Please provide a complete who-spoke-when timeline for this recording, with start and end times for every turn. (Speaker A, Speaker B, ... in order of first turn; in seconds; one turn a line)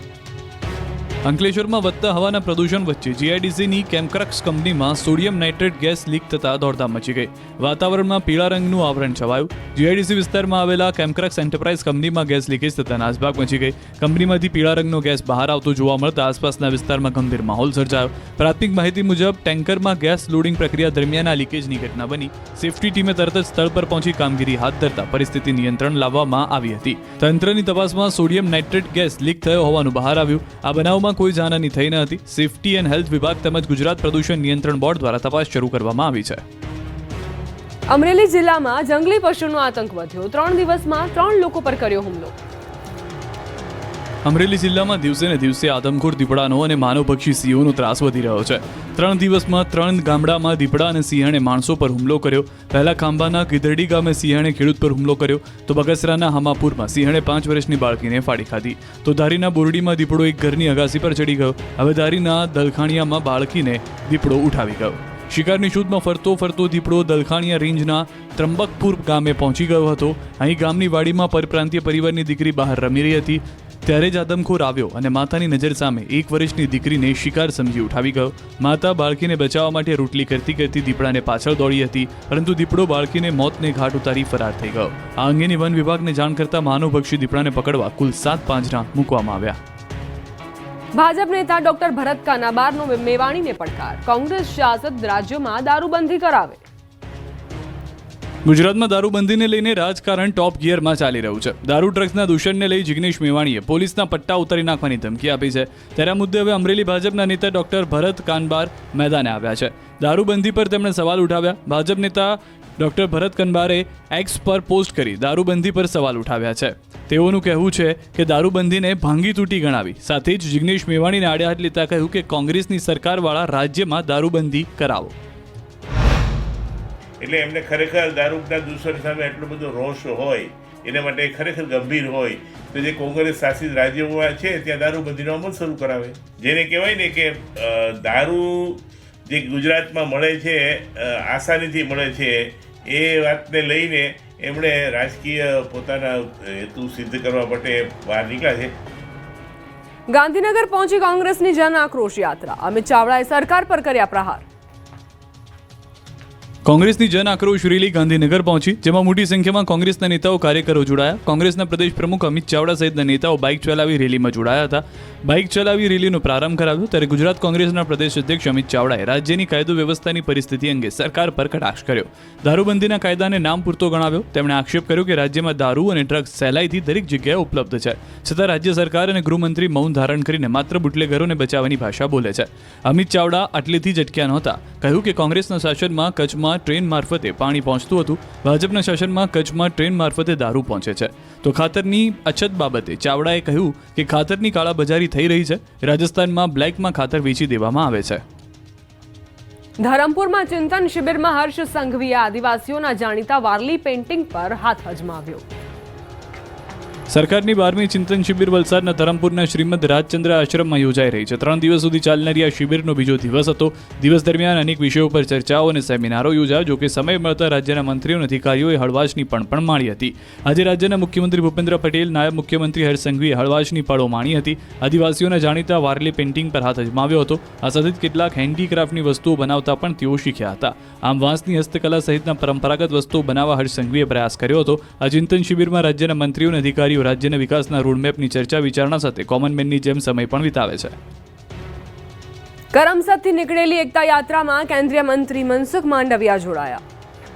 Speaker A: 1.2-36.4
Speaker B: 37.9-42.3
Speaker A: 44.2-89.6
Speaker B: 90.9-96.6
Speaker A: 98.4-125.1
Speaker C: 127.2-148.7
Speaker B: 150.1-154.4
Speaker A: 156.6-198.2
Speaker B: 199.8-205.4
Speaker A: 207.1-240.9
Speaker B: 242.7-246.8